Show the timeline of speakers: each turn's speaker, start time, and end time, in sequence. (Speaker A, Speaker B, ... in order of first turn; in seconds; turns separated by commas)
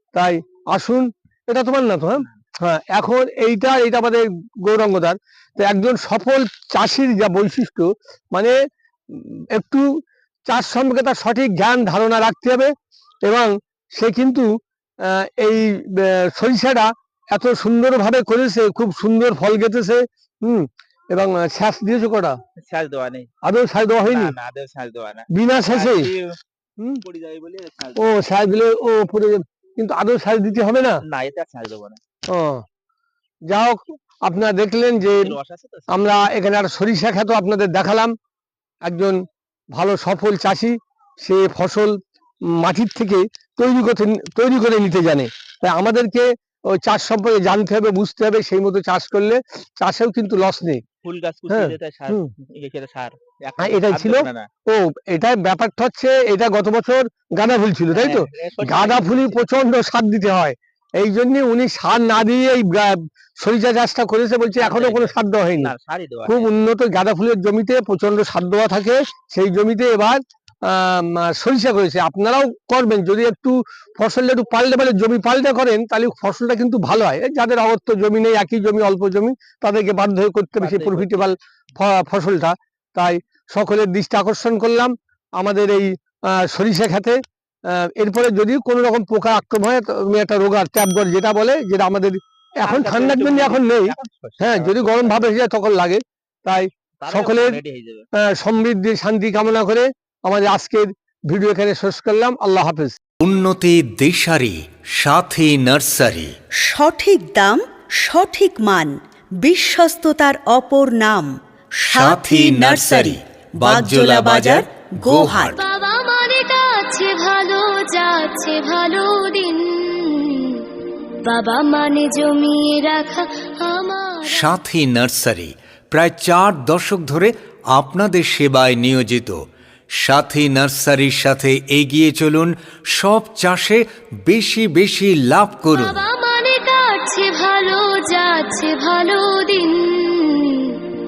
Speaker A: 0.1-8.5, Speaker A: 9.1-9.8, Speaker A: 10.5-12.7, Speaker A: 13.2-14.5, Speaker A: 15.1-22.4, Speaker B: 22.9-23.3, Speaker A: 23.4-24.4, Speaker B: 24.2-25.2, Speaker A: 25.3-26.1, Speaker B: 27.1-27.9, Speaker A: 28.0-31.0, Speaker B: 31.1-32.0, Speaker A: 32.3-32.6, Speaker A: 33.5-35.4, Speaker A: 35.9-38.1, Speaker A: 38.9-39.2, Speaker A: 39.7-42.0, Speaker A: 42.6-50.8, Speaker B: 51.5-52.1, Speaker A: 51.5-52.3, Speaker B: 53.0-54.4, Speaker A: 53.6-65.7, Speaker A: 66.3-97.6, Speaker B: 94.2-94.5, Speaker A: 98.2-103.0, Speaker C: 103.2-106.3, Speaker D: 106.6-115.5, Speaker C: 111.9-115.6, Speaker E: 115.5-120.7, Speaker E: 121.3-124.5, Speaker C: 124.2-129.4, Speaker C: 130.0-136.0, Speaker E: 135.7-140.8